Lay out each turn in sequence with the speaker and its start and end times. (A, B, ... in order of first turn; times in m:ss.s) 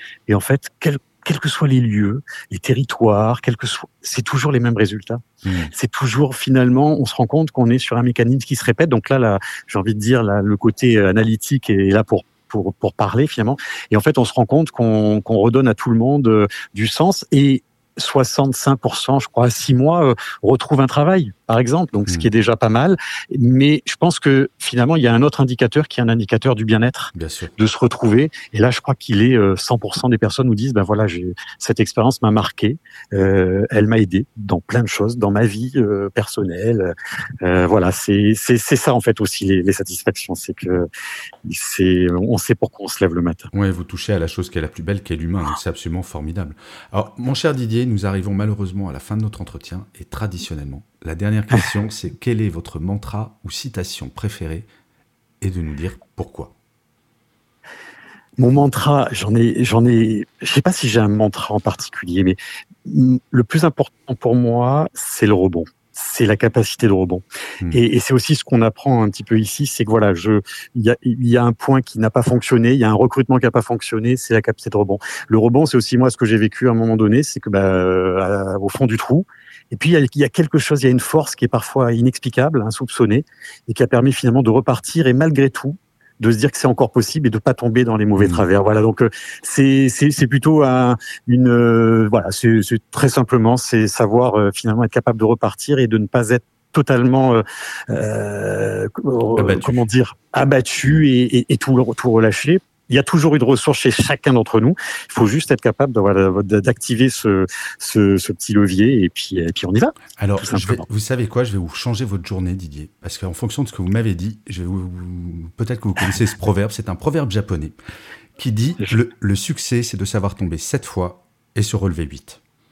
0:00.3-0:40.9 A
0:05.4-0:05.7 B
0:27.2-0:27.5 B
0:41.4-0:43.5 A
0:43.5-0:54.7 B
0:55.4-0:56.5 B
0:58.4-1:50.8 A
1:28.2-1:28.4 B
1:39.4-1:39.8 B
1:50.2-1:57.8 B
1:58.4-2:02.4 B